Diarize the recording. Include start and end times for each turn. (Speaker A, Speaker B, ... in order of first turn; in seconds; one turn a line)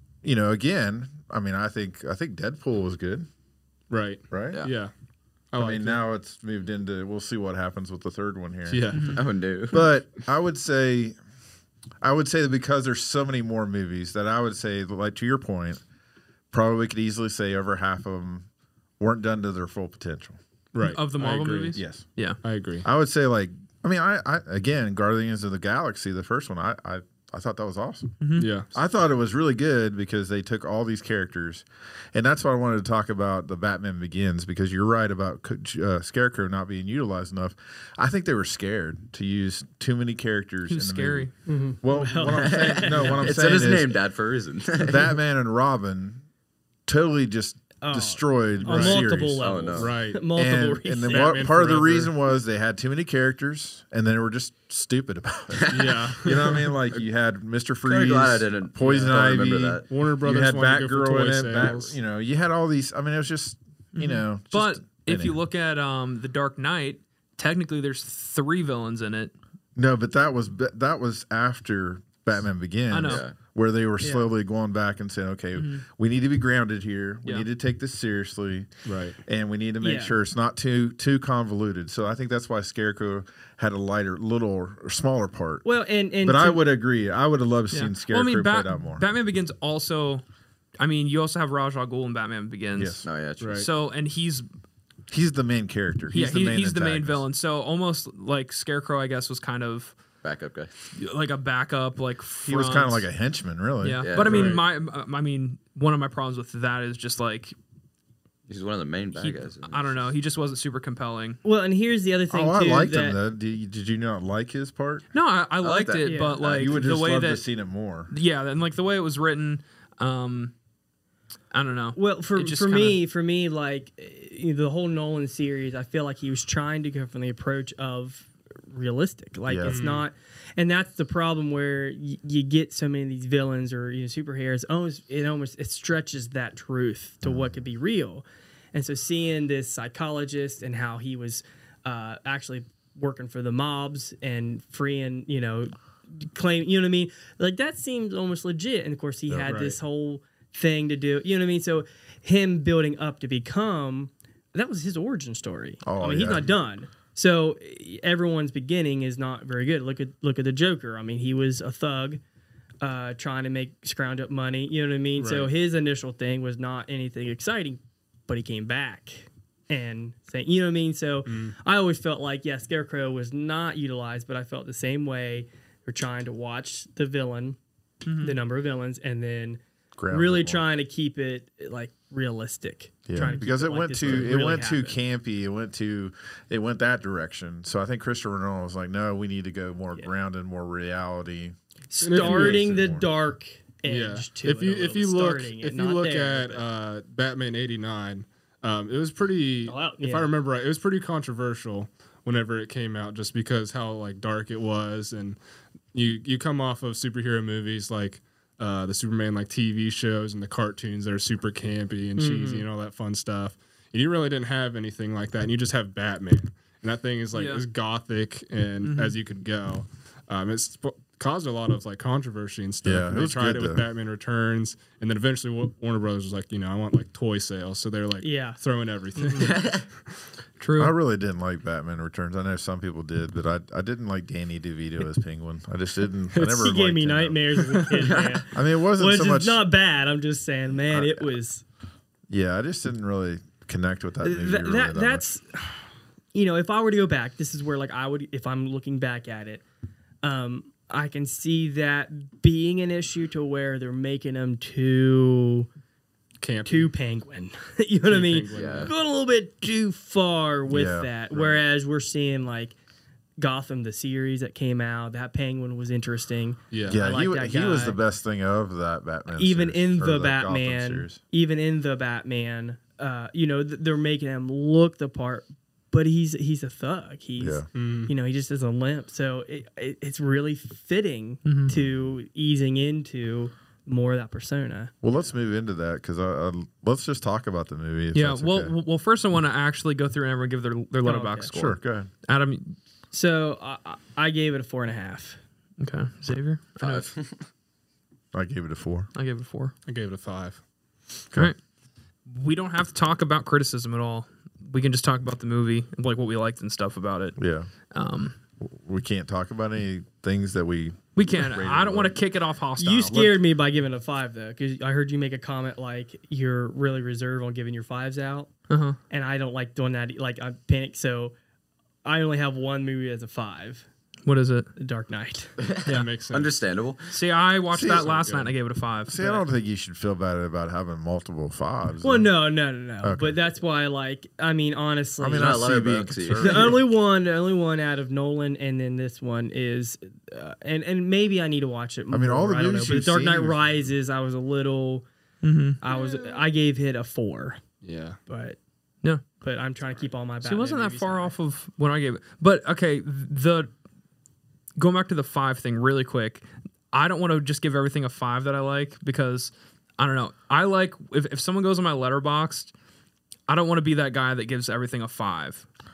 Speaker A: 0.2-3.3
Speaker B: 3.9-4.9
Speaker A: 4.3-4.7
Speaker B: 5.5-6.0
Speaker A: 5.5-9.1
Speaker B: 8.7-9.2
Speaker C: 8.9-9.2
Speaker D: 9.1-9.9
Speaker A: 9.7-11.2
Speaker A: 12.0-15.8
Speaker A: 16.5-18.4
Speaker A: 19.0-20.4
Speaker B: 20.7-21.8
Speaker C: 20.8-22.4
Speaker A: 21.7-22.0
Speaker B: 22.4-22.9
Speaker A: 22.8-28.1
Speaker C: 28.2-28.5
Speaker B: 28.4-28.7
Speaker A: 28.7-44.0
Speaker C: 40.7-41.3
Speaker E: 41.5-43.2
Speaker D: 42.3-45.1
Speaker A: 44.8-46.2
Speaker A: 46.9-49.6
Speaker E: 47.8-51.4
Speaker B: 48.6-49.0
Speaker D: 49.4-49.9
Speaker B: 49.8-50.2
Speaker A: 50.3-65.4
Speaker B: 51.0-52.1
Speaker D: 55.5-57.0
Speaker B: 55.7-56.7
Speaker D: 57.8-59.9
Speaker B: 59.9-62.0
Speaker C: 63.9-69.3
Speaker A: 69.8-78.7
Speaker C: 72.9-73.2
Speaker D: 73.0-73.3
Speaker E: 74.0-74.3
Speaker C: 75.5-75.8
Speaker B: 78.8-79.2
Speaker A: 79.2-85.7
Speaker E: 79.8-80.2
Speaker E: 85.6-86.6
Speaker A: 86.2-89.0
Speaker C: 87.7-90.2
Speaker C: 90.8-94.5
Speaker A: 92.7-93.0
Speaker D: 93.0-93.6
Speaker B: 93.4-93.7
Speaker A: 95.1-97.2
Speaker C: 96.1-99.9
Speaker D: 100.2-100.7
Speaker C: 101.0-103.0
Speaker A: 102.5-104.5
Speaker C: 103.8-107.5
Speaker D: 104.0-104.5
Speaker B: 104.3-104.6
Speaker D: 108.5-110.0
Speaker C: 109.2-111.4
Speaker E: 111.4-113.2
Speaker A: 112.3-115.0
Speaker C: 115.1-117.4
Speaker D: 115.6-116.8
Speaker E: 116.0-116.4
Speaker A: 116.5-118.1
Speaker C: 118.1-120.5
Speaker C: 121.5-123.0
Speaker E: 121.9-162.2
Speaker A: 129.5-129.8
Speaker B: 129.7-130.1
Speaker A: 137.2-137.5
Speaker B: 149.4-149.8
Speaker A: 155.8-156.5
Speaker E: 162.8-177.6
Speaker B: 165.2-165.5
Speaker B: 171.3-171.5
Speaker C: 178.0-178.4
Speaker E: 178.2-185.0
Speaker A: 180.0-180.6
Speaker A: 183.1-191.6
Speaker E: 191.9-196.6
Speaker B: 192.0-192.6
Speaker A: 192.1-193.1
Speaker B: 193.8-205.4
Speaker E: 199.7-200.3
Speaker B: 205.9-229.7
Speaker E: 212.2-212.7
Speaker C: 217.3-217.6
Speaker C: 218.8-219.1
Speaker A: 222.8-223.8
Speaker E: 228.2-228.6
Speaker E: 229.1-229.5
Speaker D: 229.4-229.9
Speaker C: 230.6-230.9
Speaker A: 230.8-237.4
Speaker E: 236.3-241.6
Speaker D: 238.0-238.4
Speaker A: 238.5-239.6
Speaker A: 240.9-241.3
Speaker A: 242.3-245.2
Speaker E: 244.2-249.6
Speaker E: 250.2-255.7
Speaker B: 256.4-256.9
Speaker E: 256.6-262.8
Speaker B: 258.1-258.9
Speaker D: 258.5-258.9
Speaker A: 260.7-261.6
Speaker E: 263.4-268.0
Speaker B: 266.7-267.0
Speaker A: 266.9-271.2
Speaker E: 269.3-284.9
Speaker A: 277.4-277.7
Speaker B: 277.7-278.1
Speaker C: 281.4-281.7
Speaker A: 285.0-288.7
Speaker C: 288.1-292.8
Speaker E: 291.0-291.5
Speaker A: 291.5-292.1
Speaker E: 293.1-295.4
Speaker C: 295.8-297.1
Speaker D: 296.8-297.4
Speaker A: 298.3-299.1
Speaker C: 299.1-299.7
Speaker B: 299.9-300.6
Speaker C: 302.3-307.4
Speaker A: 307.4-307.7
Speaker C: 307.9-308.4
Speaker A: 308.6-312.2
Speaker C: 311.1-313.4
Speaker E: 312.8-318.5
Speaker C: 318.7-319.0
Speaker E: 319.1-321.3
Speaker E: 322.0-323.9
Speaker C: 324.2-324.7
Speaker E: 324.8-325.5
Speaker D: 325.6-327.1
Speaker B: 325.9-326.5
Speaker C: 327.1-329.4
Speaker A: 327.7-328.4
Speaker B: 327.9-328.5
Speaker A: 329.1-332.3
Speaker E: 332.0-335.7
Speaker A: 333.0-333.4
Speaker A: 335.2-336.8
Speaker D: 335.3-336.8
Speaker E: 336.4-345.0
Speaker A: 342.1-343.6
Speaker C: 345.4-345.8
Speaker E: 345.8-347.6
Speaker B: 347.8-348.2
Speaker E: 348.3-348.6
Speaker E: 349.4-351.3
Speaker C: 350.4-353.7
Speaker C: 354.8-362.7
Speaker C: 363.5-365.6